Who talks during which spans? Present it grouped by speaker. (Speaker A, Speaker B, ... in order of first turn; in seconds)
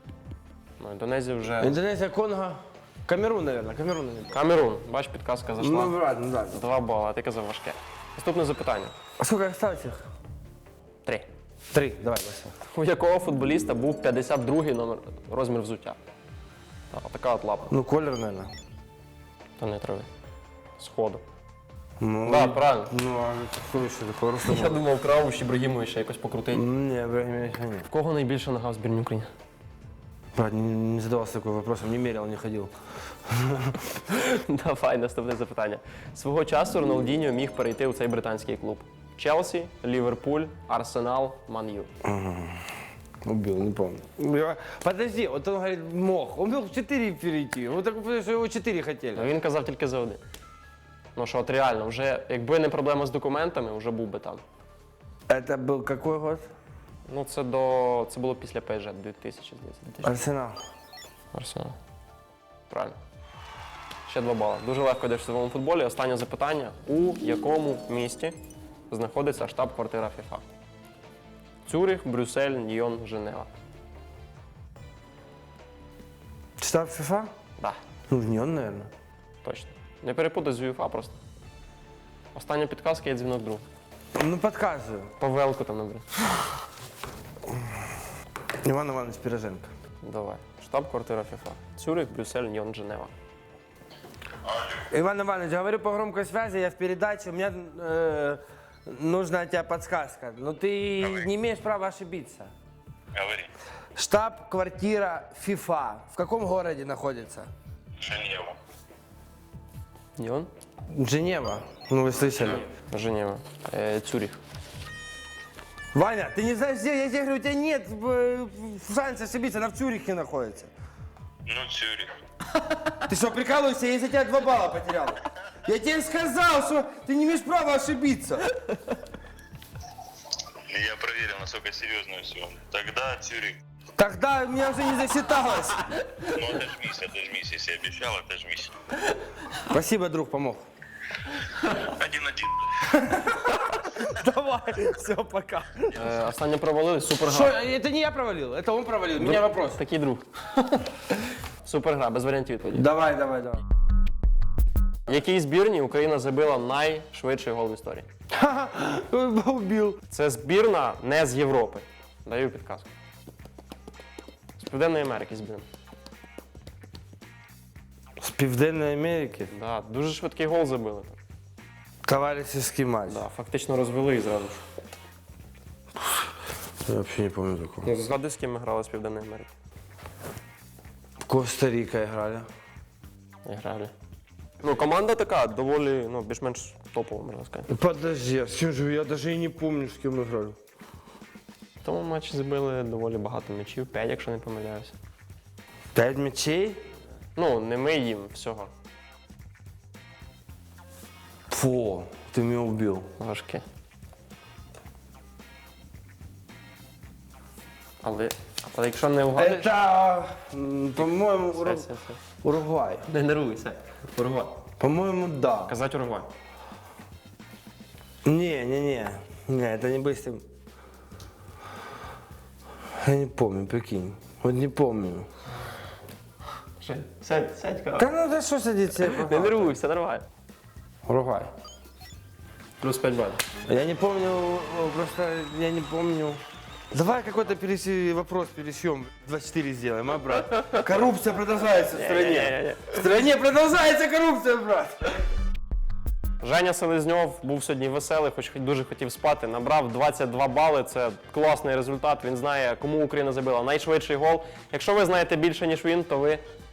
Speaker A: 0.8-1.8, 4.3-6.0, 6.5-8.9, 12.7-16.0, 16.9-17.7, 19.6-20.1, 20.8-21.2, 22.2-22.9, 24.4-26.6, 27.9-29.3, 34.0-41.9, 49.1-50.2, 51.2-54.4, 57.1-60.2, 61.3-61.8, 62.7-63.0, 64.1-68.4, 68.9-70.4, 71.7-73.5, 79.4-81.2, 82.3-83.7, 85.2-86.4, 90.0-93.1, 110.2-110.5, 112.8-114.4, 145.9-147.6, 149.2-152.9, 155.1-158.1, 160.1-162.9, 164.6-165.7, 169.5-171.2, 173.1-174.6, 177.8-179.5, 183.4-183.9, 184.6-187.7, 191.8-194.9, 197.4-198.7, 203.2-203.7, 208.0-209.7, 211.6-212.2, 213.1-214.6, 215.7-216.3, 226.8-228.1, 228.9-230.3, 232.8-233.4, 241.9-243.0, 246.4-256.4
Speaker B: 1.6-4.4, 5.6-6.6, 9.2-10.1, 11.7-12.6, 17.7-18.5, 22.0-24.8, 26.5-27.9, 30.4-32.7, 33.2-34.0, 42.0-42.7, 43.2-49.3, 55.3-56.5, 60.0-60.6, 76.6-77.3, 78.1-78.9, 84.2-85.1, 88.6-89.7, 94.9-102.5, 104.0-107.5, 110.9-112.7, 115.9-120.7, 123.1-128.5, 134.0-136.0, 139.6-140.6, 142.9-146.2, 147.2-149.8, 152.7-153.6, 158.3-160.0, 168.2-169.5, 172.1-173.2, 176.0-176.3, 176.8-177.9, 181.3-182.5, 187.7-190.6, 195.9-196.8, 201.5-203.1, 209.3-211.9, 212.4-213.1, 214.8-215.8, 218.2-220.4, 223.0-225.3, 228.0-229.8, 231.1-231.5, 233.7-245.1
Speaker C: 94.5-94.7, 103.1-103.5, 108.0-108.6, 121.5-122.1, 130.7-133.6, 136.3-138.8, 141.8-142.9